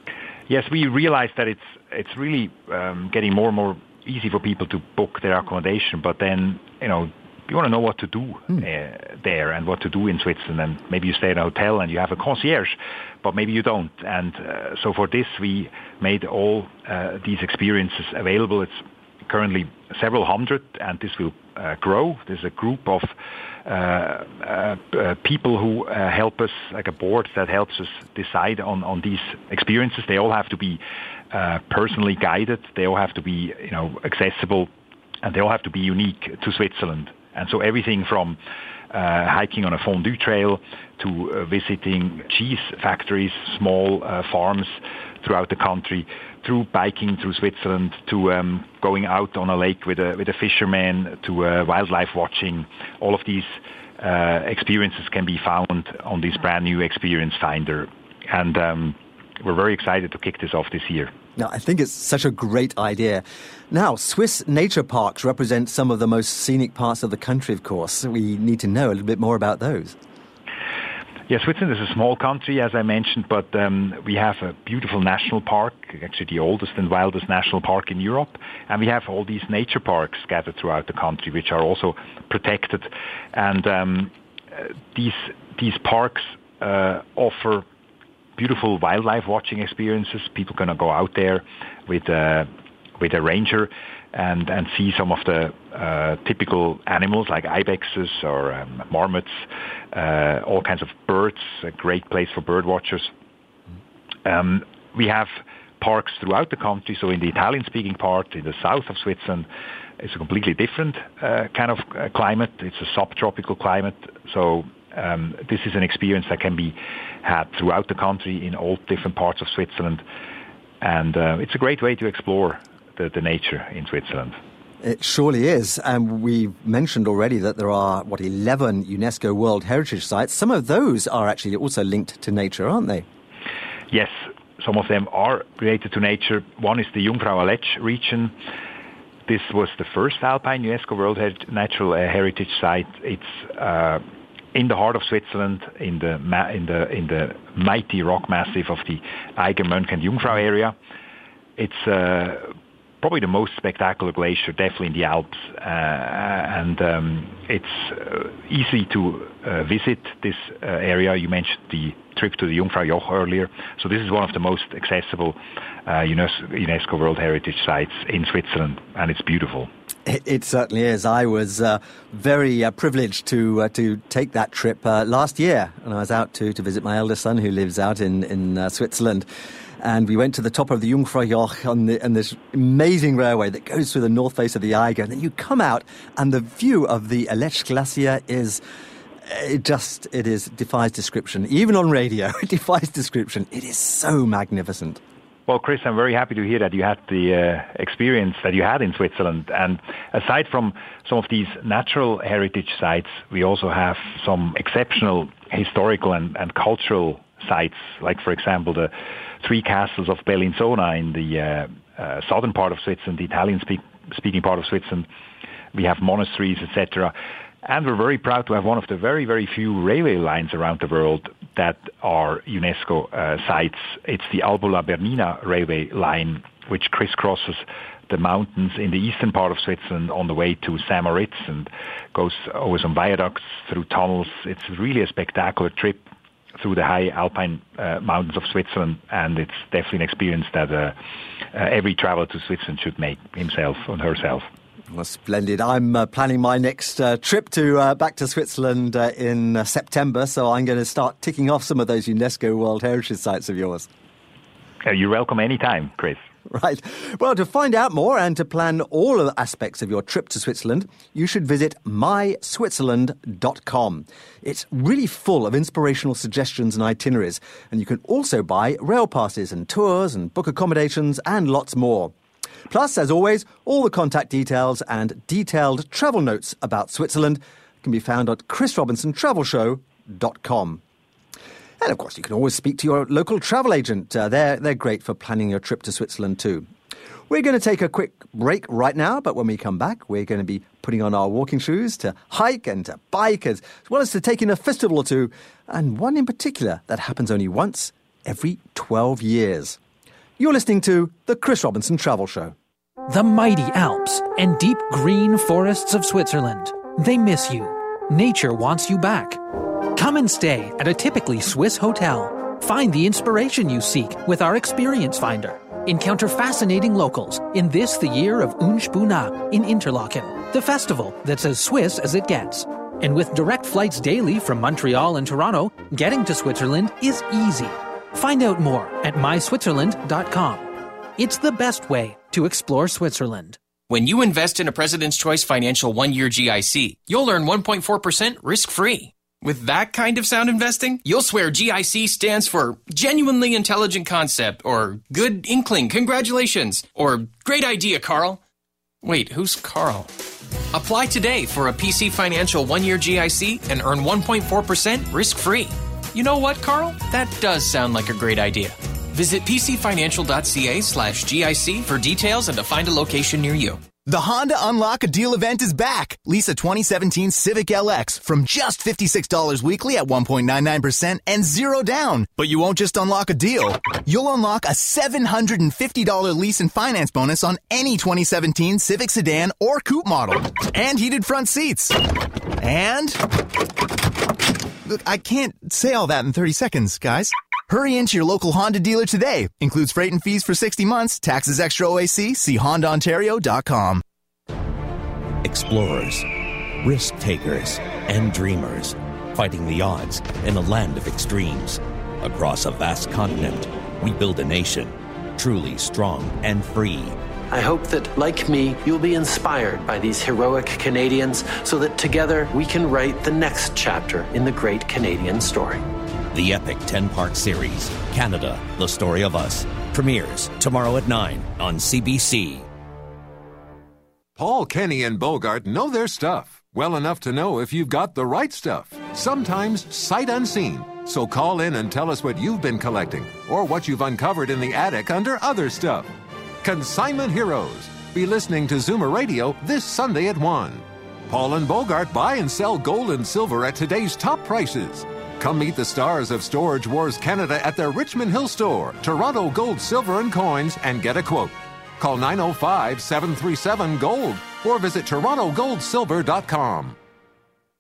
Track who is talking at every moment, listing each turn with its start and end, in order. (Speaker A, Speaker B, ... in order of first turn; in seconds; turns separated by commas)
Speaker A: 0.5-23.1, Speaker A: 23.6-30.8, Speaker A: 31.3-34.7, Speaker A: 35.2-38.4, Speaker A: 38.9-61.1, Speaker B: 61.4-70.0, Speaker A: 71.3-87.7, Speaker A: 88.4-103.1, Speaker A: 104.2-109.5, Speaker A: 110.0-120.0, Speaker A: 120.8-124.4, Speaker B: 124.8-133.1, Speaker A: 133.9-138.3, Speaker A: 139.3-144.0, Speaker A: 144.5-150.8, Speaker A: 151.6-169.7, Speaker B: 170.1-179.3, Speaker B: 179.8-188.6, Speaker B: 189.2-195.0, Speaker A: 195.5-215.1, Speaker A: 215.7-217.1, Speaker A: 217.6-236.0, Speaker A: 236.6-241.0, Speaker A: 241.5-244.5, Speaker B: 244.9-253.9, Speaker A: 254.8-256.2, Speaker B: 256.5-272.1, Speaker B: 272.7-280.8, Speaker B: 281.8-286.7, Speaker B: 287.3-299.8, Speaker B: 300.4-302.6, Speaker C: 303.1-309.4, Speaker C: 309.9-333.6, Speaker D: 333.9-348.4, Speaker D: 349.0-350.1, Speaker D: 350.7-363.8, Speaker E: 364.1-382.0, Speaker E: 382.6-383.3, Speaker E: 384.9-394.0, Speaker F: 395.4-396.3, Speaker F: 396.8-407.2, Speaker G: 407.5-415.8, Speaker F: 416.3-422.7, Speaker H: 424.4-436.1, Speaker H: 436.6-457.0